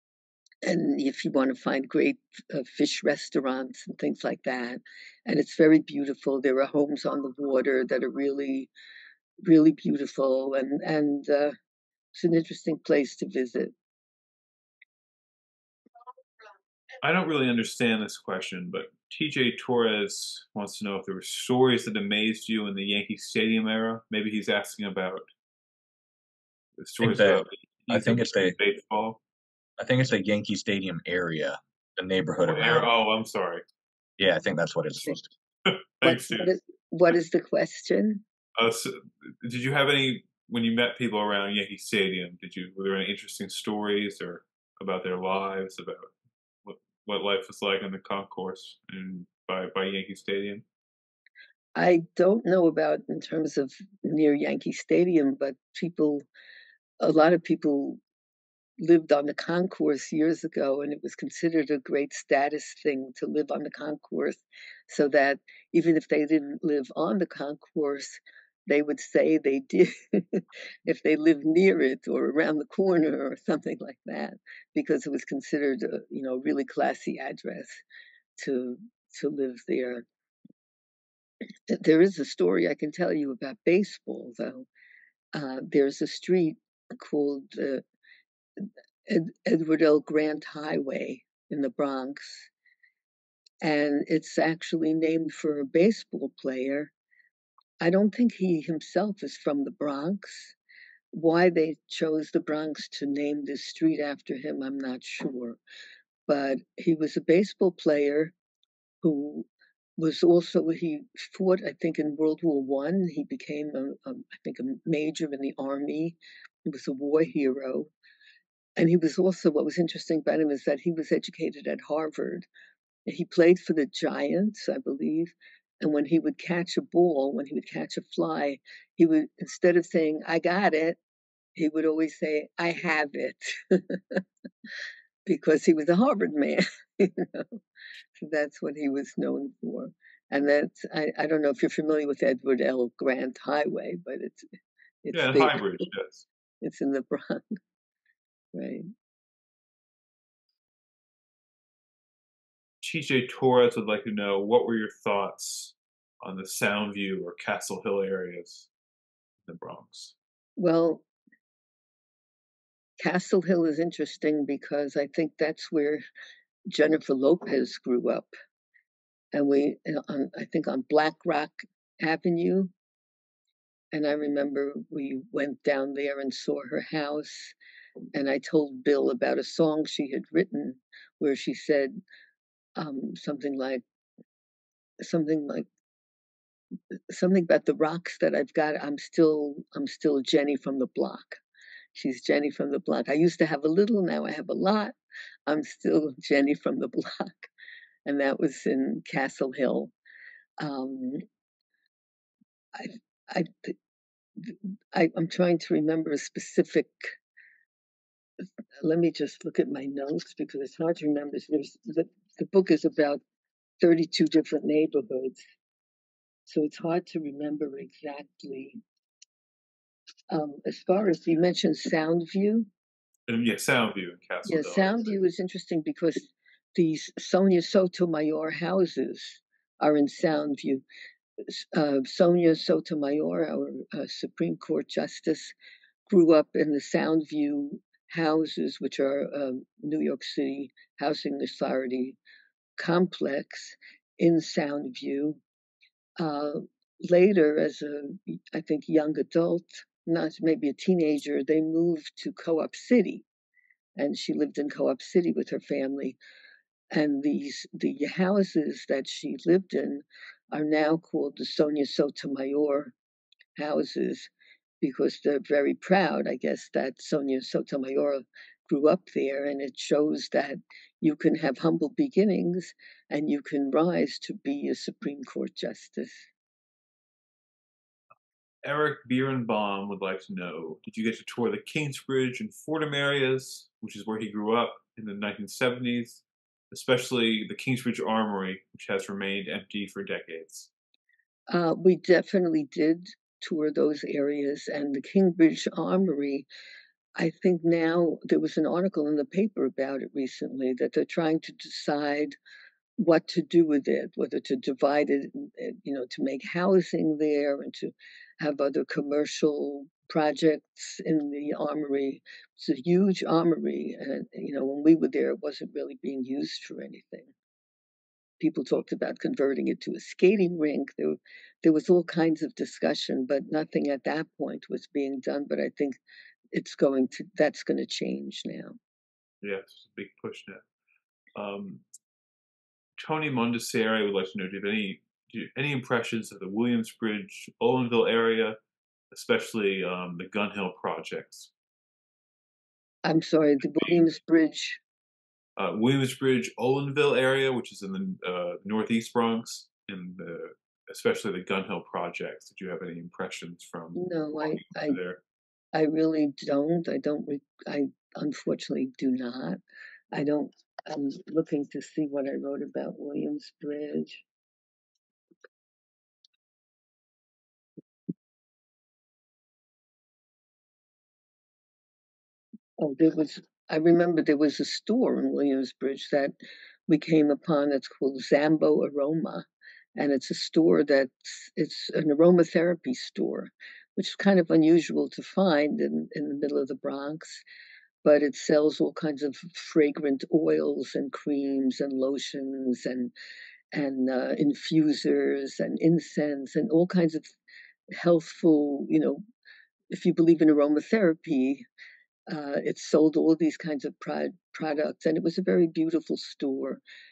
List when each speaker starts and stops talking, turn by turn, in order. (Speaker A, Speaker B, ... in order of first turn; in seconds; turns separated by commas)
Speaker A: 0.6-8.7, Speaker A: 9.4-11.6, Speaker A: 12.1-13.7, Speaker B: 17.0-25.3, Speaker B: 26.8-29.2, Speaker C: 27.0-28.6, Speaker C: 29.8-32.9, Speaker B: 32.4-33.6, Speaker C: 34.2-35.3, Speaker B: 35.7-36.5, Speaker A: 36.0-38.2, Speaker B: 38.6-46.1, Speaker B: 46.6-50.6, Speaker A: 51.8-56.2, Speaker A: 57.0-58.0, Speaker A: 58.8-77.8, Speaker A: 78.4-80.0, Speaker A: 81.7-84.7, Speaker A: 85.3-87.8, Speaker A: 88.6-92.5, Speaker A: 93.6-96.9, Speaker A: 97.8-100.5, Speaker A: 101.1-105.6, Speaker A: 106.3-108.3, Speaker A: 109.0-116.2, Speaker A: 116.7-117.9, Speaker A: 118.8-122.5, Speaker A: 123.1-131.0, Speaker A: 131.6-134.2, Speaker A: 135.3-137.6, Speaker A: 138.2-144.5, Speaker A: 145.0-145.6, Speaker B: 145.1-146.3, Speaker A: 146.6-147.6, Speaker A: 148.6-148.9, Speaker B: 152.8-158.7, Speaker B: 159.5-160.1, Speaker A: 160.6-161.1, Speaker A: 163.0-166.0, Speaker A: 166.7-168.3, Speaker A: 169.3-172.7, Speaker A: 173.9-177.6, Speaker A: 178.1-182.0, Speaker A: 182.8-183.8, Speaker A: 185.0-185.7, Speaker A: 187.1-191.4, Speaker A: 191.9-194.9, Speaker A: 195.5-197.5, Speaker A: 198.1-199.9, Speaker A: 200.6-201.2, Speaker A: 202.8-203.8, Speaker A: 204.4-207.2, Speaker A: 208.8-213.2, Speaker A: 213.8-215.4, Speaker A: 216.5-218.8, Speaker A: 220.3-222.7, Speaker B: 223.3-225.1, Speaker A: 224.5-230.8, Speaker A: 231.5-235.6, Speaker A: 236.1-242.2, Speaker A: 242.8-245.4, Speaker A: 246.2-253.2, Speaker A: 254.0-256.2, Speaker A: 256.9-262.9, Speaker A: 263.6-264.3, Speaker A: 264.8-276.3, Speaker B: 278.6-290.7, Speaker A: 291.5-296.5, Speaker A: 297.2-302.4, Speaker A: 303.0-317.3, Speaker A: 318.4-326.0, Speaker A: 326.5-328.8, Speaker B: 329.4-330.6, Speaker B: 331.4-331.8, Speaker B: 333.0-338.6, Speaker B: 339.1-341.5, Speaker A: 343.1-344.8, Speaker B: 345.6-355.2, Speaker A: 354.0-355.0, Speaker A: 355.7-359.6, Speaker A: 360.1-364.2, Speaker A: 372.8-376.3, Speaker A: 376.9-387.4, Speaker A: 388.0-393.1, Speaker A: 393.7-397.3, Speaker A: 398.0-399.2, Speaker A: 399.9-401.6, Speaker A: 402.3-406.8